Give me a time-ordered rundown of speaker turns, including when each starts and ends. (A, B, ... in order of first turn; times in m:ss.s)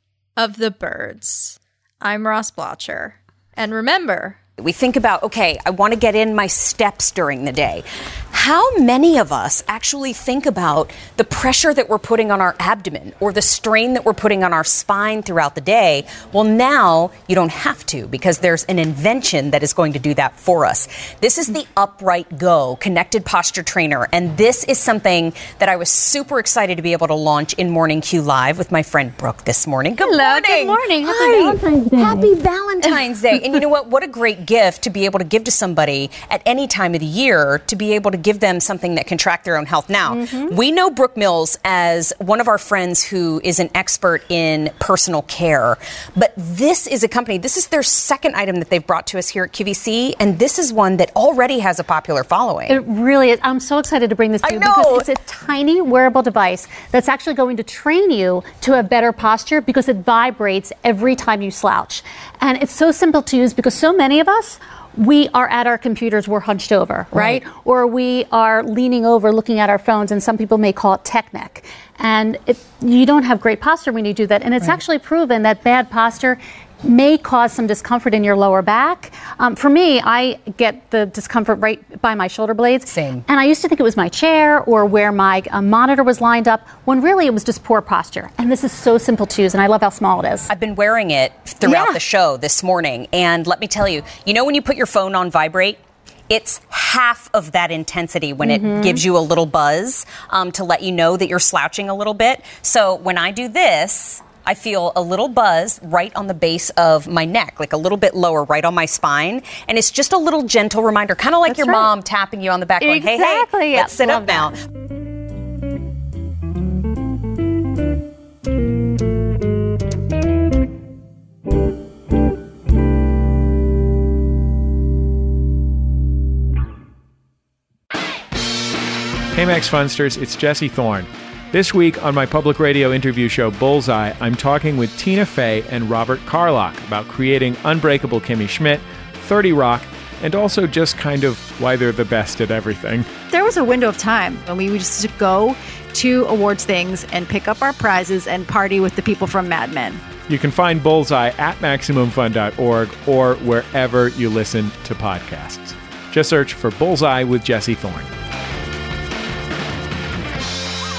0:00.4-0:04.4 A
0:04.6-0:52.8 B
0:30.0-0:32.3 C
0:40.1-0:40.6 C
0:52.7-1:30.5 C
0:54.4-0:55.1 B
1:07.2-1:07.4 B
1:22.9-1:23.2 B
1:30.5-1:54.6 B
1:31.6-1:32.0 C
1:38.4-1:39.0 C
1:51.5-1:51.9 C
1:52.8-1:54.6 C
2:09.3-2:23.1 D
2:23.3-2:30.0 E
2:30.3-2:38.1 D